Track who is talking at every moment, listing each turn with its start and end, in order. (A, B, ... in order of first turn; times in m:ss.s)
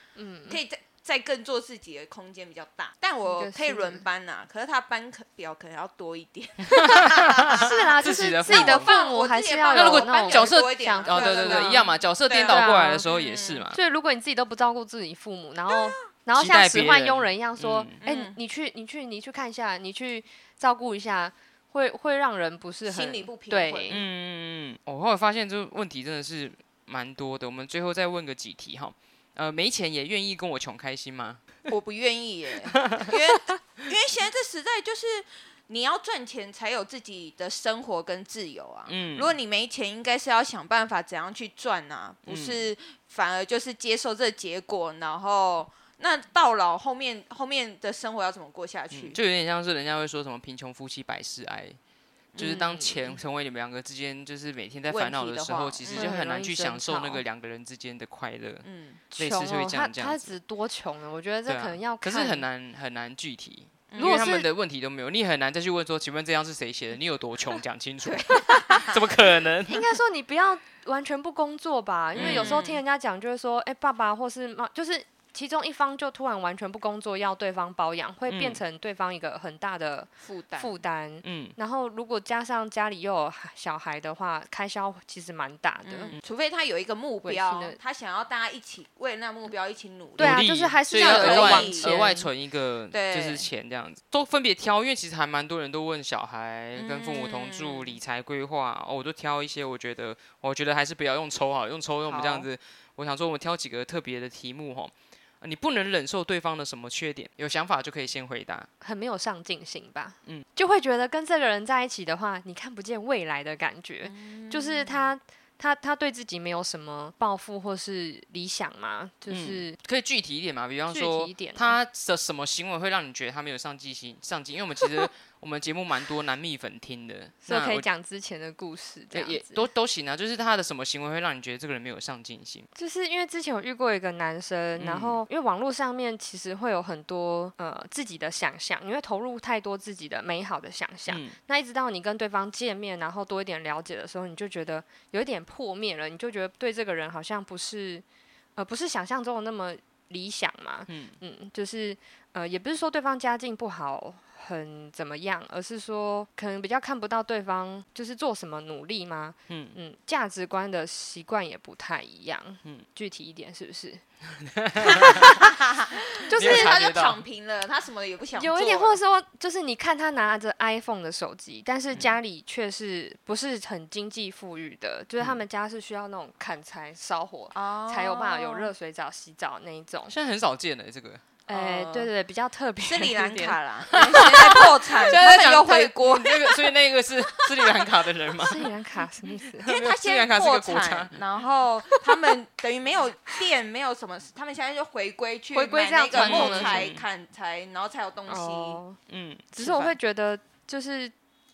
0:00.2-0:00.6 A
0:00.5-0:07.8 B
0:03.2-0:04.0 A
0:06.6-0:08.9 C
0:07.5-0:11.9 A
0:08.4-0:13.6 B
0:09.7-0:13.8 C
0:12.5-0:13.0 A
0:13.7-0:24.0 A
0:16.4-0:18.0 C
0:18.0-0:18.4 B
0:22.8-0:24.0 B
0:23.9-0:31.5 C
0:31.7-0:49.2 B
0:32.8-0:33.1 C
0:38.9-0:39.3 C
0:42.2-0:42.6 C
0:48.9-0:51.8 C
0:52.3-0:53.2 B
0:52.4-0:58.6 C
0:52.4-0:52.9 A
0:54.9-0:56.1 B
0:55.9-0:57.2 A
0:58.6-0:59.0 B
0:59.1-1:02.4 A
0:59.2-1:00.3 C
1:01.4-1:09.9 C
1:03.9-1:04.3 B
1:04.0-1:04.5 A
1:08.0-1:09.1 B
1:09.7-1:26.1 A
1:12.2-1:12.6 C
1:12.2-1:12.8 B
1:18.3-1:18.6 C
1:20.2-1:20.8 B
1:21.2-1:21.6 C
1:25.8-1:32.0 B
1:27.2-1:27.8 A
1:30.2-1:32.3 A
1:30.2-1:48.7 C
1:32.9-1:33.5 B
1:36.7-1:38.0 B
1:42.1-1:42.4 B
1:48.8-1:59.8 A
1:54.0-1:55.1 B
1:59.3-2:07.8 C
2:00.9-2:01.8 A
2:07.4-2:09.7 A
2:09.1-2:12.7 C
2:12.7-2:28.0 A
2:14.8-2:15.2 C
2:21.1-2:21.4 C
2:28.6-2:44.0 A
2:30.9-2:31.2 C
2:39.5-2:39.8 C
2:44.3-2:45.4 C
2:44.8-2:45.5 A
2:44.9-2:49.0 B
2:46.3-2:46.7 A
2:46.3-2:47.2 C
2:48.3-3:00.1 A
2:57.5-2:58.7 B
3:00.1-3:01.2 C
3:01.5-3:05.1 A
3:01.5-3:02.1 B
3:02.8-3:07.9 B
3:03.9-3:08.7 C
3:08.4-3:09.7 A
3:09.6-3:11.2 C
3:09.6-3:18.8 B
3:15.5-3:16.8 A
3:16.1-3:17.0 C
3:18.3-3:19.0 A
3:19.1-3:20.0 C
3:19.5-3:21.1 A